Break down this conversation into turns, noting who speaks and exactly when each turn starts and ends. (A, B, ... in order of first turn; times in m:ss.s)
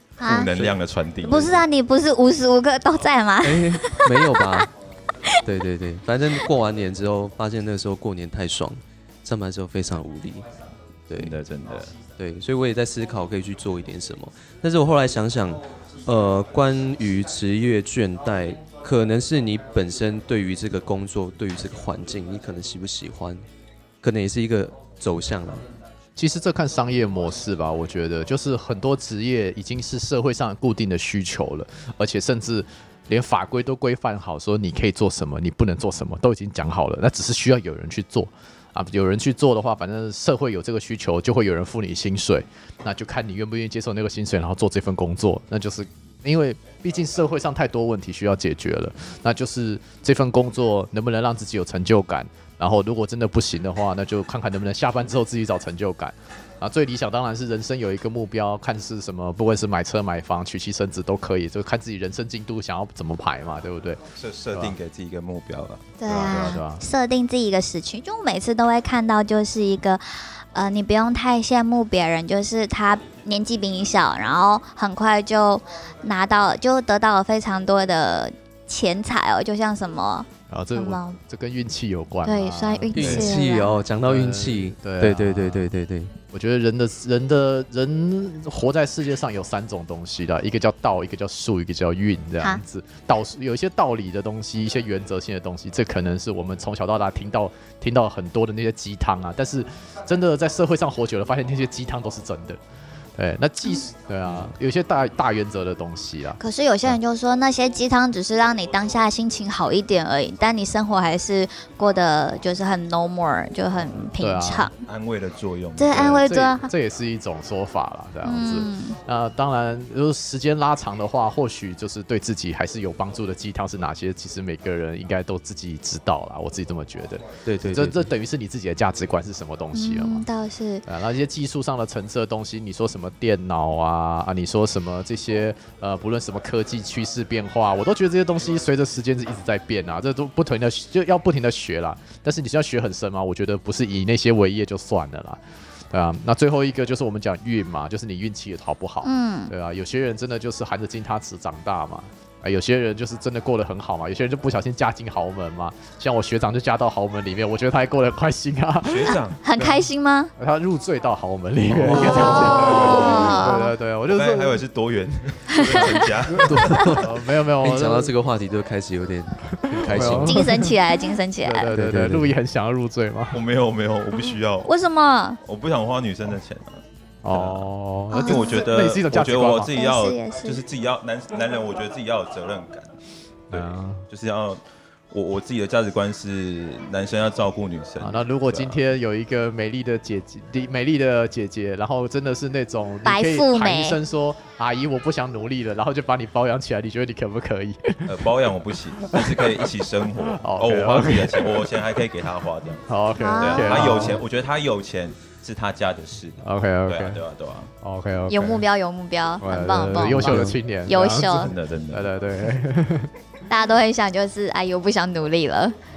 0:00.2-0:00.5 A
0:00.2-0:01.6 B
0:00.5-0:00.8 C
0:01.2-0:04.6 A
0:03.4-0:04.7 C
0:05.4-0:10.4 C
0:11.1-0:11.4 C
0:11.2-0:11.9 B
0:12.2-0:23.4 C
0:24.0-0:25.6 C
0:26.2-1:04.8 D
1:04.2-1:06.5 B
1:06.0-1:21.2 A
1:06.1-1:06.8 D
1:20.5-1:23.3 D
1:22.2-1:23.7 A
1:22.9-1:26.1 C
1:23.0-1:23.3 B
1:24.0-1:25.7 D
1:26.3-1:42.6 D
1:43.2-1:47.0 D
1:46.4-1:54.7 A
1:54.2-1:54.7 D
1:54.8-1:56.3 B
1:55.8-1:56.7 A
1:56.0-2:10.3 D
1:58.2-1:59.0 A
2:07.4-2:08.1 C
2:09.7-2:10.8 A
2:10.8-2:44.6 D
2:29.0-2:29.5 A
2:38.8-2:39.4 B
2:39.4-2:40.3 A
2:41.7-2:43.1 C
2:42.0-2:43.5 B
2:42.0-2:43.7 A
2:44.1-2:47.0 B
2:45.5-2:45.8 A
2:45.7-2:48.1 D
2:46.4-2:50.7 C
2:49.5-2:50.8 D
2:50.2-2:51.7 A
2:51.4-2:53.4 D
2:51.7-2:52.3 C
2:53.3-2:54.7 B
2:54.6-2:55.4 A
2:55.4-2:57.7 B
2:57.2-2:59.7 D
2:58.1-2:58.6 A
2:58.2-3:03.0 B
2:59.7-3:00.6 A
3:03.5-3:08.8 B
3:03.5-3:04.0 D
3:08.0-3:18.3 D
3:13.0-3:14.0 A
3:18.0-3:22.8 B
3:19.0-3:21.7 D
3:22.9-3:24.2 D
3:23.2-3:24.0 A
3:23.4-3:27.7 B
3:26.4-3:27.2 D
3:27.8-3:28.6 D
3:28.3-3:31.5 A
3:29.4-3:33.1 D
3:30.0-3:30.6 C
3:31.2-3:32.1 B
3:33.5-3:35.7 A